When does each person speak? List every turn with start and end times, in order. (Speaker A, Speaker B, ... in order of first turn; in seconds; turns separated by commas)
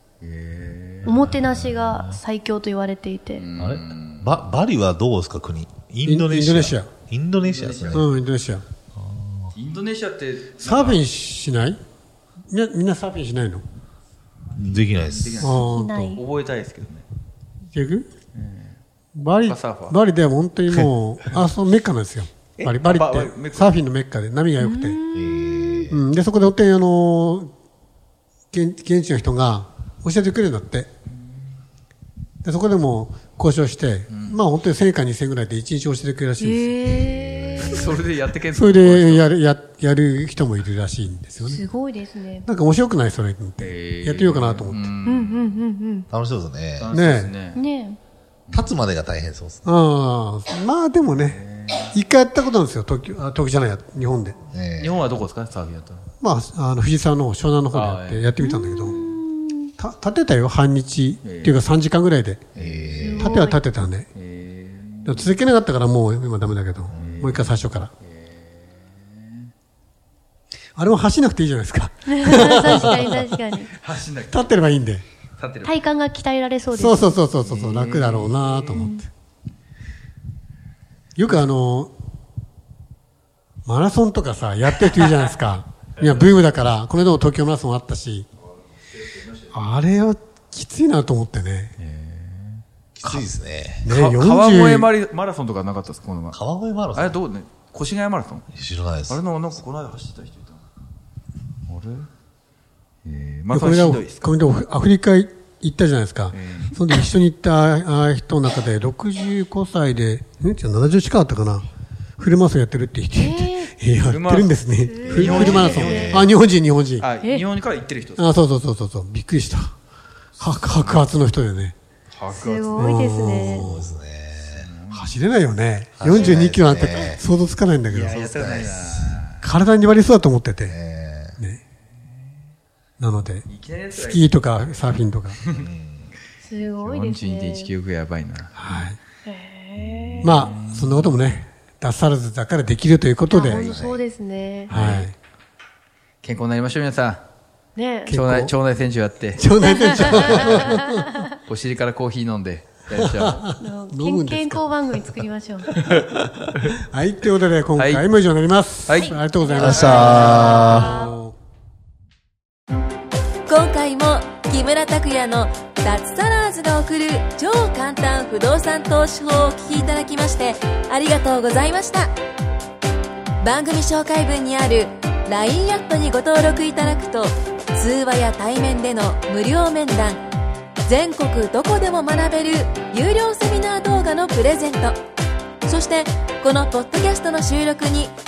Speaker A: 0.2-1.3, Speaker B: 1.0-3.5, Speaker C: 1.2-2.2, Speaker A: 3.4-4.3, Speaker C: 3.6-8.1, Speaker D: 6.0-6.9, Speaker A: 7.3-8.2, Speaker D: 7.9-8.6, Speaker C: 8.9-9.5, Speaker A: 9.5-11.0, Speaker D: 10.6-11.8, Speaker D: 12.5-13.6, Speaker C: 14.6-15.6, Speaker A: 14.7-15.6, Speaker D: 15.4-16.2, Speaker B: 15.4-16.2, Speaker A: 16.1-17.1, Speaker D: 17.7-18.1, Speaker A: 18.3-18.8, Speaker D: 19.1-25.0, Speaker A: 19.4-20.0, Speaker A: 20.7-21.4, Speaker A: 22.6-23.8, Speaker B: 24.6-25.8, Speaker C: 25.1-26.0, Speaker D: 25.9-27.5, Speaker D: 28.5-30.9, Speaker D: 32.4-37.1, Speaker A: 34.1-34.4, Speaker B: 36.4-37.8, Speaker A: 37.5-39.3, Speaker D: 38.5-41.6, Speaker B: 41.4-42.5, Speaker D: 42.5-44.8, Speaker A: 43.6-45.6, Speaker B: 45.0-46.1, Speaker C: 46.1-46.9, Speaker A: 46.8-47.6, Speaker D: 46.9-47.3, Speaker B: 47.5-48.0, Speaker A: 48.5-48.8, Speaker C: 48.5-49.6, Speaker D: 49.6-51.4, Speaker A: 51.1-51.9, Speaker D: 51.9-54.4, Speaker C: 54.5-55.1, Speaker A: 54.8-56.1, Speaker D: 56.2-59.0, Speaker A: 57.7-59.2, Speaker B: 58.4-59.7, Speaker D: 59.8-62.4, Speaker A: 61.2-61.6, Speaker A: 62.5-63.3, Speaker C: 62.5-63.2, Speaker B: 63.0-63.6, Speaker D: 63.1-64.1, Speaker A: 64.1-65.3, Speaker D: 65.0-67.9, Speaker C: 66.9-67.2, Speaker A: 67.0-67.5, Speaker A: 68.0-69.5, Speaker D: 70.8-73.4, Speaker B: 72.1-73.7, Speaker A: 73.7-74.5, Speaker D: 74.3-75.0, Speaker A: 75.4-75.8, Speaker B: 75.6-77.2, Speaker D: 76.7-79.1, Speaker A: 77.4-78.9, Speaker B: 78.7-79.0, Speaker D: 81.2-81.9, Speaker D: 83.6-88.3, Speaker A: 89.0-89.5, Speaker D: 89.5-91.7, Speaker A: 91.8-93.3, Speaker C: 93.0-93.9, Speaker D: 93.8-94.9, Speaker A: 93.8-96.4, Speaker C: 96.3-97.2, Speaker A: 96.9-98.5, Speaker C: 98.5-99.2, Speaker A: 99.0-100.6, Speaker A: 101.7-102.1, Speaker A: 103.0-104.3, Speaker D: 103.5-117.1, Speaker A: 106.3-106.8, Speaker B: 113.1-113.7, Speaker A: 114.0-116.3, Speaker B: 114.8-116.2, Speaker C: 115.2-116.3, Speaker A: 117.0-118.3, Speaker D: 118.2-119.7, Speaker A: 120.4-121.0, Speaker D: 120.4-121.7, Speaker A: 122.1-123.0, Speaker B: 122.3-123.7, Speaker D: 122.8-124.0, Speaker C: 123.6-124.6, Speaker A: 124.5-125.1, Speaker D: 124.9-128.3, Speaker C: 126.0-127.2, Speaker B: 126.1-126.5, Speaker A: 127.9-129.4, Speaker C: 128.1-129.2, Speaker D: 129.4-130.8, Speaker C: 130.7-131.4, Speaker D: 133.0-135.4, Speaker A: 133.5-135.7, Speaker C: 135.5-136.1, Speaker B: 136.4-137.7, Speaker A: 136.8-138.6, Speaker D: 138.6-139.0, Speaker B: 139.2-140.3, Speaker A: 139.8-141.2, Speaker D: 140.2-143.8, Speaker B: 143.3-144.7, Speaker A: 143.4-144.0, Speaker A: 144.7-145.1, Speaker D: 144.7-145.1, Speaker A: 146.2-147.2, Speaker B: 147.7-148.1, Speaker D: 148.1-148.5, Speaker A: 148.1-150.8, Speaker D: 149.4-151.1, Speaker B: 149.6-151.3, Speaker A: 151.4-153.4, Speaker D: 153.0-154.6, Speaker B: 153.6-155.7, Speaker D: 156.0-161.3, Speaker A: 157.8-158.1, Speaker A: 158.9-160.7, Speaker B: 159.4-161.1, Speaker C: 159.6-160.9, Speaker E: 163.5-171.9, Speaker E: 173.7-174.7, Speaker E: 175.9-177.1, Speaker E: 178.0-179.8, Speaker E: 181.7-184.2, Speaker E: 186.9-187.8